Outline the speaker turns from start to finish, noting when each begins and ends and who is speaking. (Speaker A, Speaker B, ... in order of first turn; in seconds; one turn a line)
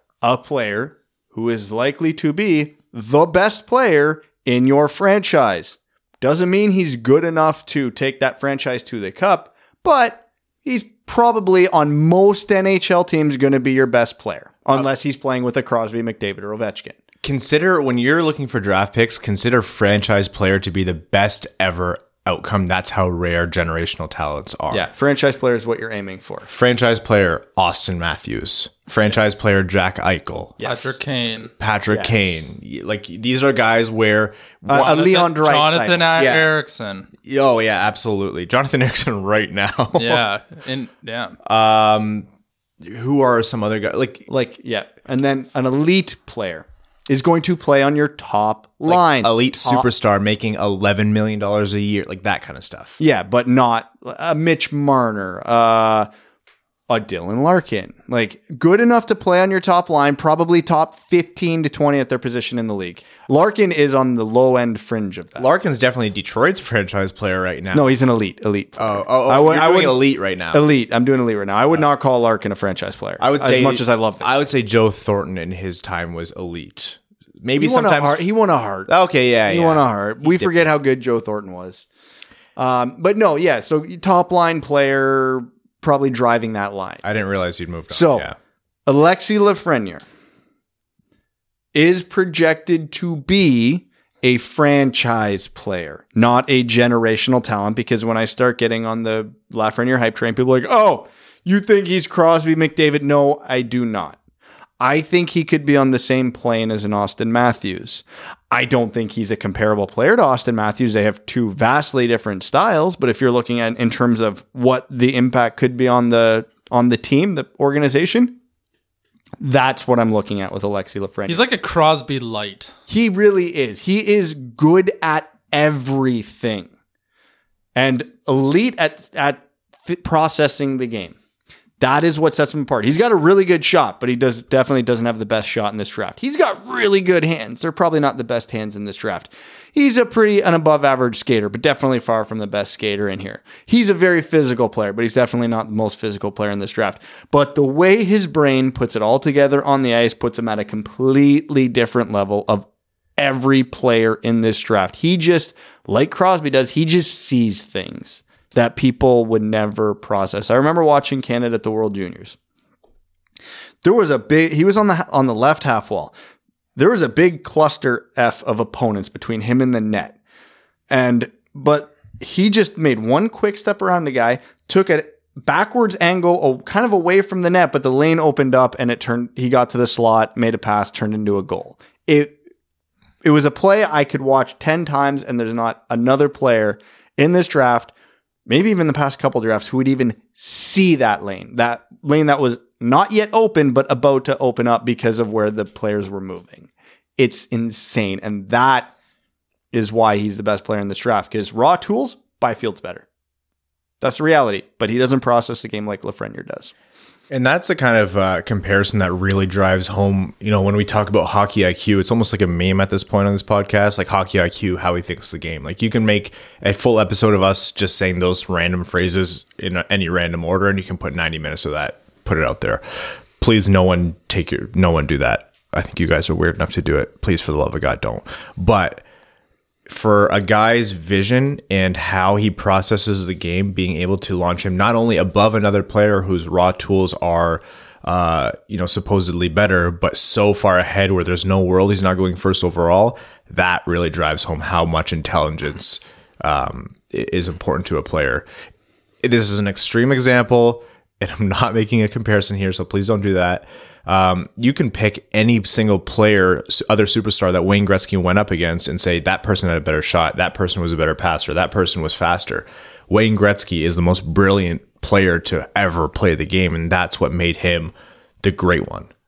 Speaker A: 0.2-17.0
Speaker B: 17.2-24.8
Speaker A: 24.7-26.5
Speaker B: 26.5-30.6
Speaker A: 30.6-30.9
Speaker C: 30.6-31.5
Speaker B: 31.6-35.0
Speaker A: 31.9-32.2
Speaker A: 34.7-36.2
Speaker C: 34.7-37.1
Speaker B: 36.2-36.5
Speaker B: 37.2-40.2
Speaker C: 40.0-41.4
Speaker B: 41.4-42.3
Speaker B: 42.8-44.3
Speaker A: 44.3-49.9
Speaker B: 48.9-53.0
Speaker A: 53.0-56.1
Speaker A: 56.9-65.5
Speaker B: 65.4-67.9
Speaker A: 67.7-74.3
Speaker B: 68.8-70.6
Speaker B: 73.2-78.2
Speaker A: 77.6-78.9
Speaker B: 78.9-80.7
Speaker A: 79.5-81.8
Speaker A: 82.5-87.0
Speaker B: 87.0-88.3
Speaker A: 87.9-88.3
Speaker A: 88.9-90.0
Speaker A: 91.7-104.2
Speaker A: 104.8-118.4
Speaker A: 119.4-121.5
Speaker C: 121.3-122.7
Speaker A: 122.9-126.7
Speaker A: 127.7-131.2
Speaker A: 131.8-152.7
Speaker A: 153.2-162.4
Speaker A: 163.8-166.1
Speaker A: 166.8-170.2
Speaker A: 170.9-182.4
Speaker A: 183.2-187.9
Speaker A: 188.5-198.9
Speaker A: 199.7-203.0
Speaker A: 204.0-206.7
Speaker B: 207.3-229.0
Speaker B: 229.9-248.5
Speaker B: 249.2-269.1